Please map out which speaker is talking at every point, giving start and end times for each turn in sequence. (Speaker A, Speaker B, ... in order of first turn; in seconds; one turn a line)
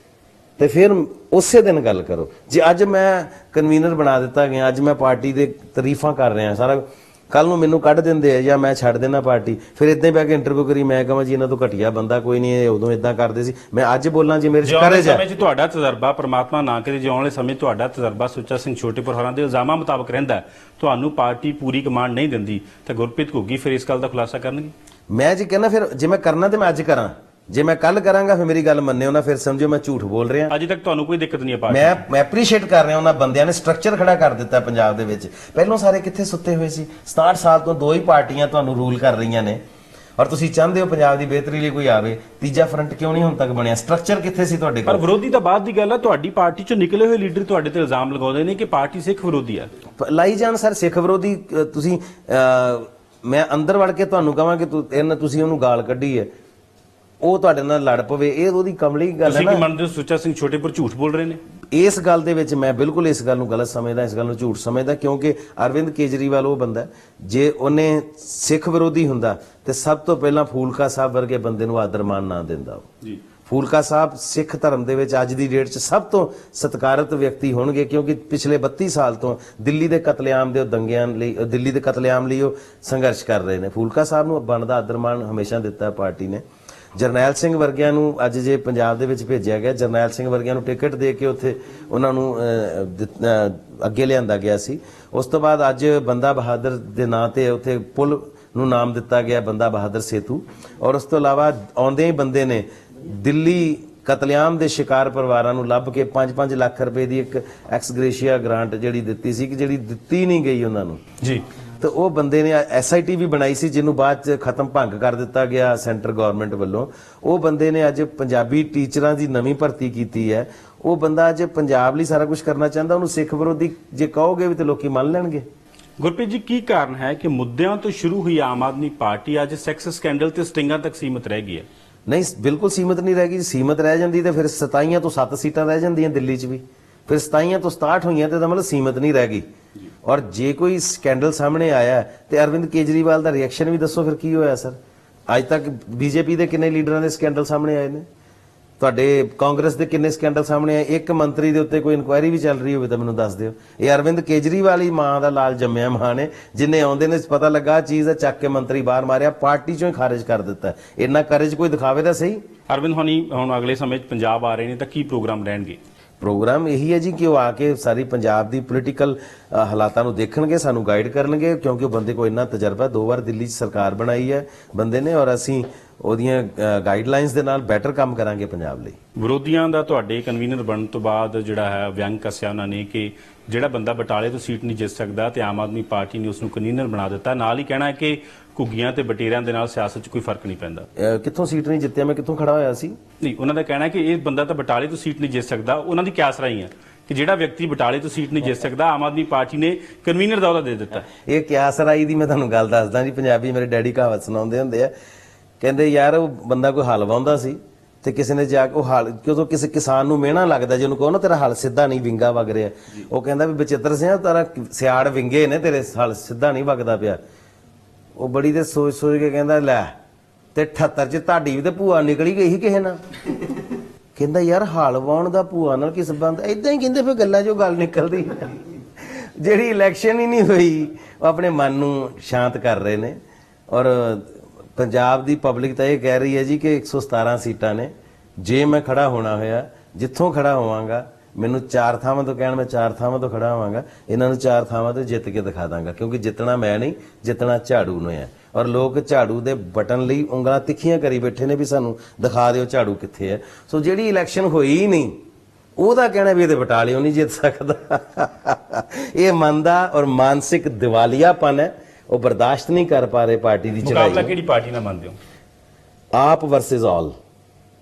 Speaker A: 0.6-15.2
Speaker B: 14.6-24.7
Speaker A: 25.1-30.5
Speaker B: 30.5-32.0
Speaker A: 31.7-39.6
Speaker A: 40.2-45.0
Speaker B: 44.9-49.7
Speaker A: 50.0-56.3
Speaker A: 57.2-59.7
Speaker B: 59.2-61.4
Speaker A: 61.7-72.9
Speaker A: 73.5-86.4
Speaker A: 87.0-111.0
Speaker A: 111.8-125.5
Speaker B: 126.0-131.7
Speaker A: 132.1-139.4
Speaker A: 140.0-144.8
Speaker A: 145.3-148.1
Speaker A: 148.8-162.4
Speaker B: 162.7-165.8
Speaker A: 166.2-179.0
Speaker B: 179.2-190.9
Speaker A: 191.0-193.0
Speaker B: 193.2-201.1
Speaker A: 201.1-204.9
Speaker A: 205.6-217.2
Speaker A: 218.2-219.9
Speaker A: 220.6-223.0
Speaker A: 224.2-233.2
Speaker A: 233.7-255.2
Speaker A: 255.8-264.3
Speaker B: 263.8-265.2
Speaker A: 266.1-267.1